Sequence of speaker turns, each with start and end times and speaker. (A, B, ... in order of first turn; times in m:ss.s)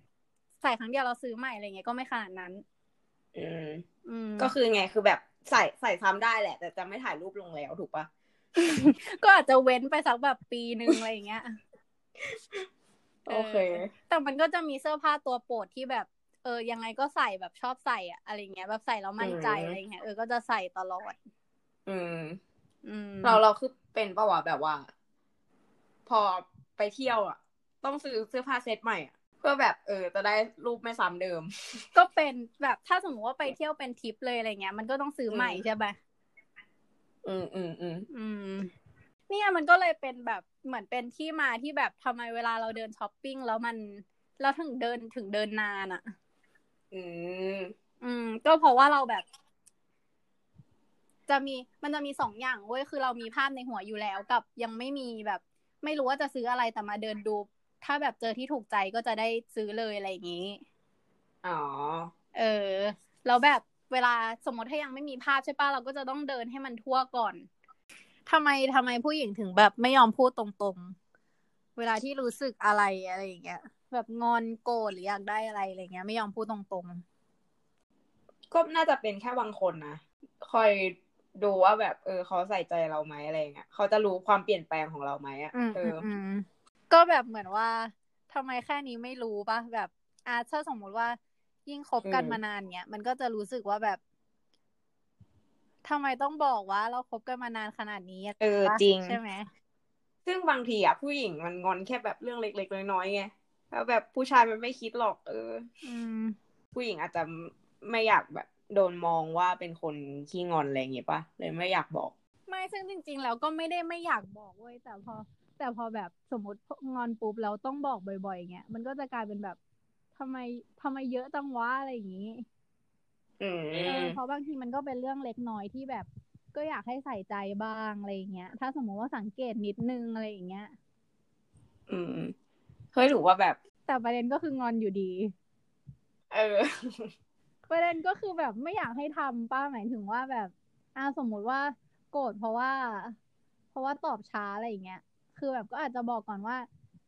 0:00.6-0:02.6 A
0:03.4-0:03.8 B
0:04.1-0:04.5 A
0:04.4-0:08.1 B
0:08.6-0:11.5 A
0:12.2-0:12.7 B
0:13.3-0:21.2 A
0:13.3-0:13.9 B
0:19.2-0:19.8 B
0:21.9-0:22.4 B
0:22.8-0:23.4 A
0:23.2-0:24.9 B
0:26.1-0:31.9 B
0:32.0-0:36.0 A
0:35.3-0:35.6 B
0:37.2-0:38.1 B
0:38.1-0:38.7 A
0:39.3-0:46.0 A
0:46.9-0:47.7 B
0:48.0-0:49.2 A
0:51.3-1:00.6 A
1:01.4-1:02.1 B
1:02.3-1:07.5 A
1:08.3-1:11.0 A
1:11.8-1:17.0 A
1:18.5-1:26.0 B
1:25.5-1:34.0 A
1:32.0-1:32.4 B
1:35.8-1:39.5 A
1:38.4-1:39.2 B
1:40.3-1:45.7 B
1:45.8-1:46.4 A
1:46.7-1:52.1 B
1:52.5-1:59.6 A
2:00.2-2:02.4 A
2:03.4-2:04.2 B
2:03.8-2:10.7 A
2:11.9-2:12.3 B
2:12.9-2:13.6 B
2:13.9-2:15.3 A
2:16.3-2:17.1 B
2:17.7-2:23.2 A
2:23.7-2:26.7 A